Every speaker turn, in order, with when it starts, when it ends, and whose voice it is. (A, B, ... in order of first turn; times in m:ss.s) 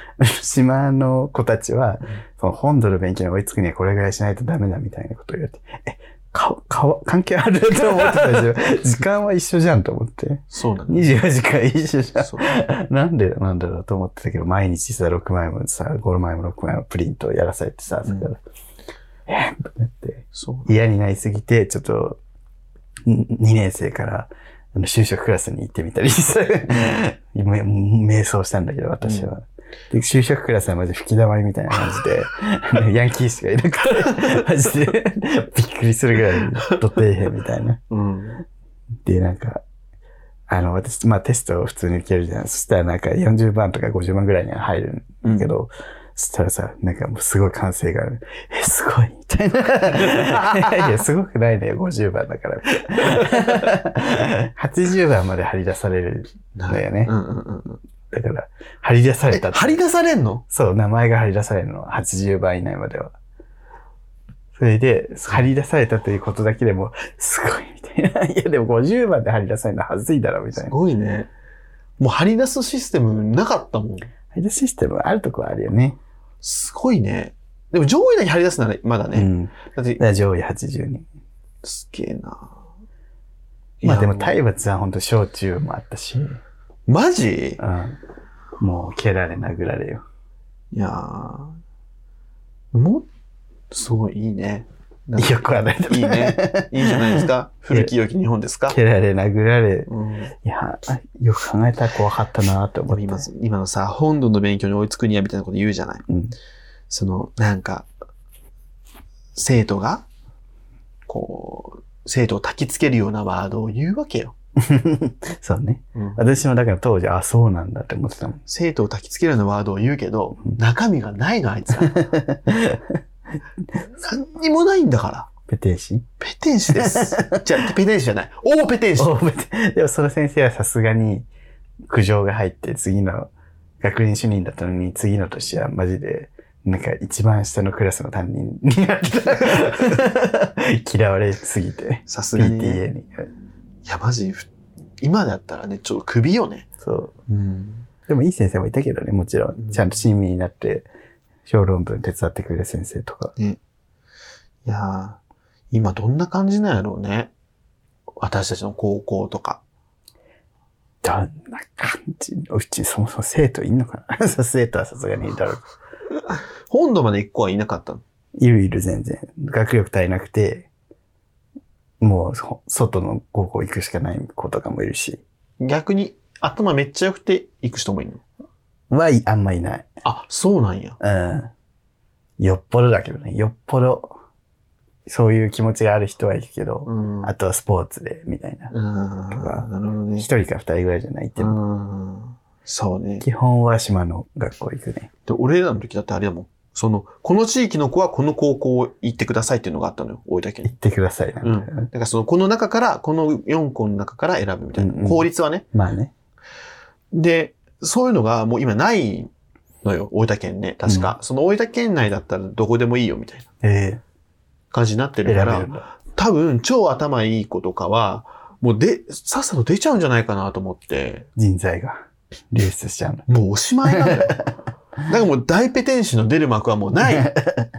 0:00.2-0:18.4 A
0:10.5-0:11.1 B
0:12.2-0:12.5 B
0:19.3-0:22.2 A
0:20.3-0:20.7 B
0:23.0-0:37.8 A
0:29.0-0:29.3 B
0:37.9-0:38.4 B
0:39.0-0:39.6 A
0:40.5-0:57.1 A
0:45.2-0:45.5 B
0:49.9-0:50.9 B
0:53.0-0:53.5 B
0:56.6-0:57.8 B
0:58.1-0:59.8 A
0:59.3-1:00.4 B
1:00.5-1:03.1 A
1:04.6-1:10.8 A
1:10.6-1:11.3 B
1:12.0-1:14.0 B
1:14.3-1:16.0 A
1:16.4-1:20.0 B
1:19.1-1:21.0 A
1:21.6-1:22.5 B
1:23.8-1:24.4 B
1:23.8-1:26.4 A
1:26.9-1:27.6 B
1:27.6-1:28.0 A
1:28.6-1:30.0 A
1:30.7-1:31.6 B
1:32.7-1:33.1 B
1:33.7-1:38.8 B
1:35.2-1:37.9 A
1:38.7-1:43.2 A
1:39.9-1:40.3 B
1:42.9-1:46.0 B
1:46.1-1:46.3 A
1:46.9-1:47.9 B
1:49.3-1:50.0 B
1:51.1-1:54.3 B
1:54.6-1:58.4 A
1:55.9-1:56.2 B
1:58.4-2:02.1 B
2:01.9-2:03.0 A
2:04.0-2:05.3 B
2:05.4-2:06.0 A
2:06.2-2:09.1 B
2:06.8-2:07.4 A
2:09.0-2:11.3 A
2:11.9-2:13.3 A
2:13.8-2:23.3 A
2:22.1-2:22.8 B
2:23.8-2:24.5 B
2:25.0-2:26.6 B
2:26.8-2:27.1 A
2:27.3-2:27.8 B
2:28.1-2:30.9 A
2:31.4-2:33.3 A
2:34.6-2:35.2 B
2:35.7-2:37.3 B
2:38.2-2:39.6 B
2:41.0-2:45.7 A
2:46.7-2:48.0 B
2:48.4-2:50.7 A
2:52.0-2:55.2 A
2:55.6-2:58.2 B
2:58.9-2:59.9 A
3:00.0-3:01.0 B
3:01.0-3:01.5 A
3:02.4-3:04.1 A
3:05.1-3:08.7 A
3:06.8-3:07.3 B
3:08.7-3:10.3 B
3:09.3-3:09.7 A
3:10.2-3:11.6 A
3:11.4-3:13.2 B
3:13.2-3:15.1 A
3:15.3-3:20.7 B
3:20.6-3:21.9 A
3:21.4-3:25.6 B
3:24.8-3:26.1 A
3:27.1-3:29.3 B
3:29.8-3:33.5 B
3:30.9-3:31.1 A
3:33.6-3:34.0 A
3:34.7-3:41.2 B
3:35.2-3:35.8 A
3:41.4-3:43.3 A
3:43.3-3:44.4 B
3:43.8-3:44.4 A
3:45.1-3:47.4 B
3:47.1-3:47.7 A